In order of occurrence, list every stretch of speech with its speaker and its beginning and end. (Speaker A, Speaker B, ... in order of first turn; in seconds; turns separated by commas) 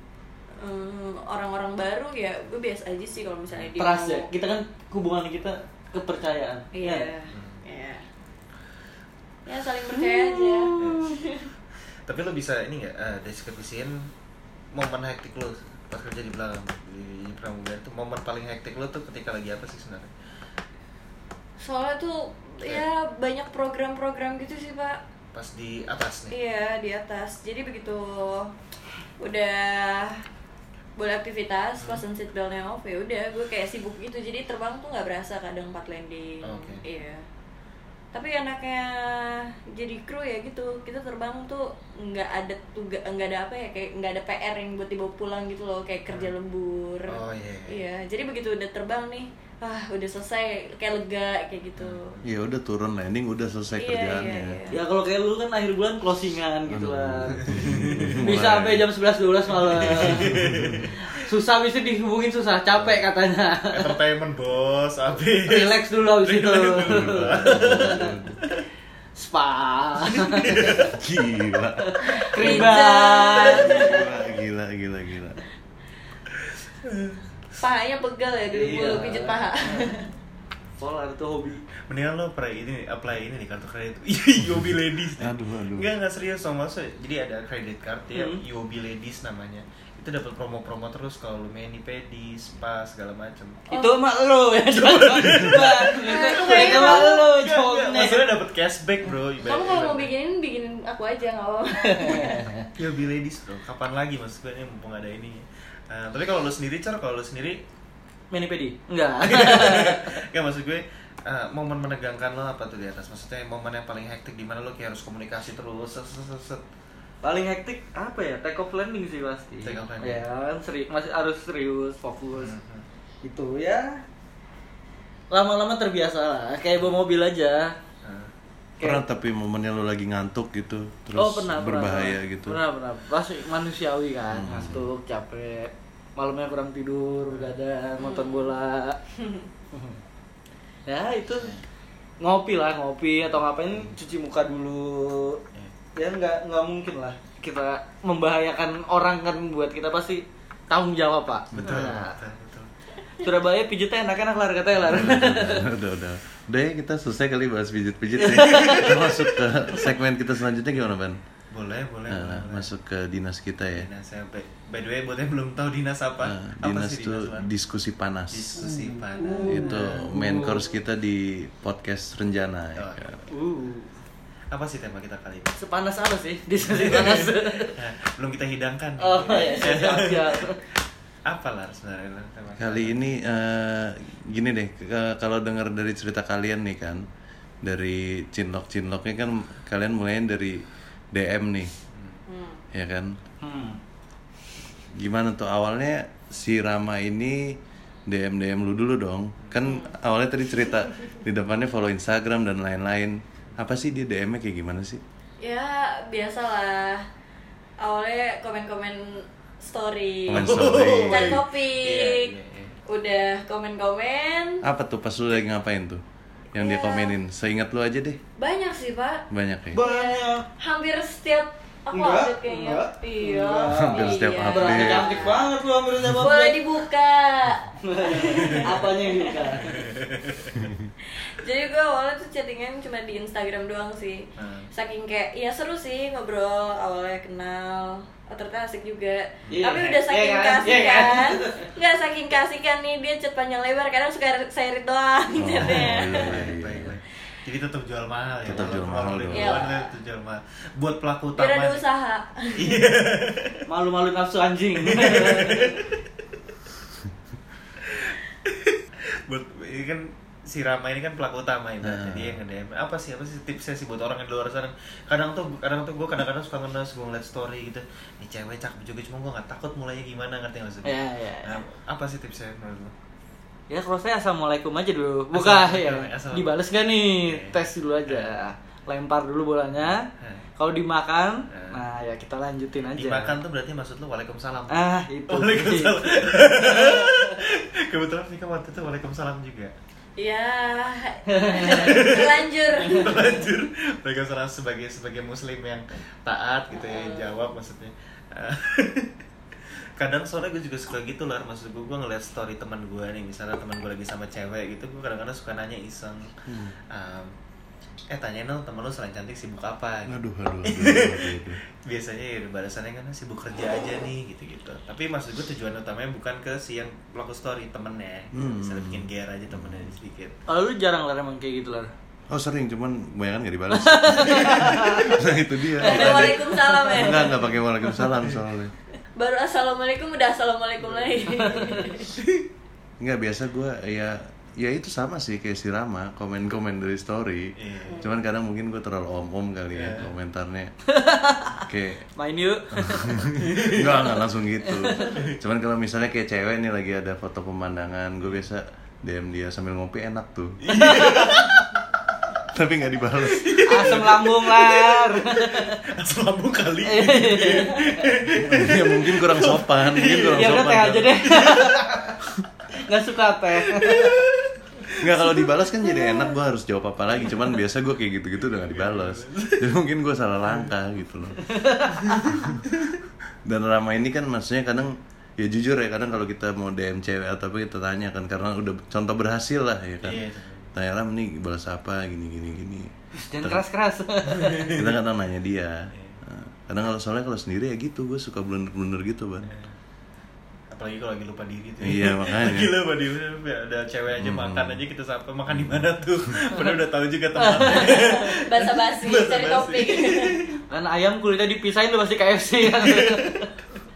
Speaker A: 0.6-4.3, Speaker B: 3.8-7.1, Speaker A: 6.7-8.0, Speaker C: 7.3-7.6, Speaker A: 9.4-11.5, Speaker B: 9.9-11.1, Speaker C: 10.8-11.1, Speaker C: 12.1-14.1, Speaker C: 14.7-20.1, Speaker A: 21.6-25.0, Speaker C: 25.3-26.3, Speaker A: 26.3-28.5, Speaker A: 29.2-30.2, Speaker A: 30.9-37.2, Speaker C: 36.4-36.8, Speaker A: 38.1-52.1, Speaker C: 47.1-47.8, Speaker C: 51.8-52.2, Speaker D: 52.2-54.6, Speaker A: 53.8-54.8, Speaker B: 54.7-57.6, Speaker D: 56.7-58.9, Speaker C: 57.4-58.2, Speaker B: 58.2-60.3, Speaker C: 59.6-61.0, Speaker D: 60.0-60.9, Speaker B: 61.1-64.0, Speaker C: 62.7-63.0, Speaker C: 63.7-68.6, Speaker B: 65.4-68.1, Speaker D: 66.9-68.4, Speaker B: 69.2-70.8, Speaker C: 70.1-70.9, Speaker D: 70.7-72.6, Speaker B: 71.8-74.0, Speaker A: 72.0-74.1, Speaker D: 73.4-75.4, Speaker C: 76.3-77.2, Speaker A: 77.6-80.1, Speaker B: 78.5-80.0, Speaker B: 80.8-81.6, Speaker C: 81.9-93.6, Speaker D: 85.2-85.9, Speaker B: 88.1-88.4, Speaker A: 93.7-94.0, Speaker B: 93.7-98.3, Speaker C: 94.7-100.1, Speaker A: 96.0-97.2, Speaker A: 99.4-102.5, Speaker B: 101.8-102.6, Speaker C: 102.7-107.6, Speaker B: 108.3-110.1, Speaker C: 109.2-116.6, Speaker B: 117.2-122.5, Speaker C: 119.6-120.2, Speaker C: 122.3-122.8, Speaker B: 123.2-124.0, Speaker B: 125.3-127.7, Speaker C: 128.0-128.3, Speaker D: 128.8-132.6, Speaker B: 131.2-139.0, Speaker D: 134.3-134.9, Speaker A: 138.0-138.6, Speaker A: 139.2-139.5, Speaker B: 140.8-141.5, Speaker B: 142.2-145.4, Speaker B: 145.9-152.1, Speaker D: 151.5-151.9, Speaker C: 151.6-152.7, Speaker B: 153.2-155.7, Speaker D: 154.9-161.2, Speaker B: 158.2-159.1, Speaker C: 158.5-158.9, Speaker C: 161.5-162.7, Speaker D: 162.1-163.9, Speaker C: 163.8-167.5, Speaker D: 166.2-168.6, Speaker C: 168.3-169.9, Speaker B: 168.6-170.7, Speaker D: 169.4-173.2, Speaker C: 172.8-173.3, Speaker B: 173.3-173.9, Speaker C: 174.5-175.6, Speaker B: 175.6-177.8, Speaker C: 176.6-180.6, Speaker B: 179.0-180.6, Speaker C: 181.2-183.0, Speaker D: 182.6-187.0, Speaker D: 187.6-190.6, Speaker D: 191.1-191.7, Speaker C: 191.9-192.2, Speaker A: 192.3-192.6, Speaker D: 192.7-193.2, Speaker B: 193.4-193.8, Speaker D: 194.9-197.6, Speaker D: 198.1-205.0, Speaker A: 199.6-199.9, Speaker A: 205.4-207.1, Speaker A: 207.8-212.3, Speaker D: 210.3-211.4, Speaker C: 210.3-212.8, Speaker A: 212.9-214.6, Speaker D: 214.6-218.2, Speaker A: 216.6-217.1, Speaker A: 218.4-225.5, Speaker D: 219.3-219.8, Speaker B: 219.7-220.4, Speaker B: 221.9-226.6, Speaker D: 223.8-225.2, Speaker A: 226.1-229.7, Speaker B: 227.8-229.9, Speaker C: 229.7-230.7, Speaker D: 230.6-230.9, Speaker A: 231.0-246.4, Speaker C: 234.4-234.7, Speaker C: 239.4-239.7, Speaker B: 239.5-241.7, Speaker D: 245.4-246.9, Speaker C: 245.6-251.8, Speaker D: 248.4-249.6, Speaker A: 249.3-249.9, Speaker A: 251.3-252.8, Speaker C: 252.6-253.6, Speaker B: 253.7-255.8, Speaker C: 254.8-256.0, Speaker C: 257.8-272.9, Speaker D: 261.8-262.4, Speaker B: 270.8-271.6, Speaker B: 273.7-280.1, Speaker C: 275.3-276.5, Speaker C: 277.2-278.3, Speaker C: 280.2-280.4, Speaker B: 280.6-283.4, Speaker C: 281.5-281.8, Speaker C: 282.9-289.7, Speaker B: 284.7-287.4, Speaker A: 290.2-293.3, Speaker B: 291.3-292.1, Speaker C: 291.6-299.1, Speaker A: 296.7-297.3, Speaker C: 300.0-306.3, Speaker D: 306.5-306.7, Speaker C: 306.9-307.3, Speaker C: 308.1-320.4, Speaker D: 310.1-311.6, Speaker D: 318.3-319.9, Speaker B: 320.5-321.9, Speaker D: 322.3-328.7, Speaker B: 323.7-325.2, Speaker C: 324.3-325.1, Speaker B: 325.8-327.2, Speaker A: 325.8-327.5, Speaker A: 329.1-332.1, Speaker C: 330.9-332.4, Speaker B: 331.4-331.7, Speaker D: 333.0-340.7, Speaker C: 337.6-338.0, Speaker A: 337.9-338.1, Speaker C: 339.7-340.1, Speaker B: 340.9-343.2, Speaker D: 341.7-342.0, Speaker D: 342.7-350.6, Speaker C: 343.4-344.0, Speaker B: 344.6-345.2, Speaker C: 350.6-351.7, Speaker B: 350.8-351.4, Speaker D: 352.5-353.5, Speaker C: 353.2-360.7, Speaker B: 353.6-355.8, Speaker B: 356.8-358.1, Speaker D: 358.4-361.3, Speaker B: 360.3-362.1, Speaker C: 361.3-362.0, Speaker B: 362.8-364.2, Speaker C: 363.7-365.0, Speaker D: 365.0-371.4, Speaker A: 365.8-366.3, Speaker C: 368.6-369.7, Speaker B: 371.4-372.2, Speaker C: 371.9-373.0, Speaker D: 372.3-372.6, Speaker D: 373.4-380.2, Speaker C: 380.0-380.7, Speaker D: 380.7-383.6, Speaker B: 383.1-384.8, Speaker C: 384.3-384.8, Speaker D: 384.7-389.5, Speaker C: 385.9-386.2, Speaker C: 389.4-389.7, Speaker C: 390.7-400.6, Speaker D: 391.8-392.7, Speaker D: 394.2-394.8, Speaker B: 397.4-398.2, Speaker A: 397.9-400.4, Speaker B: 400.7-403.5, Speaker C: 402.7-403.4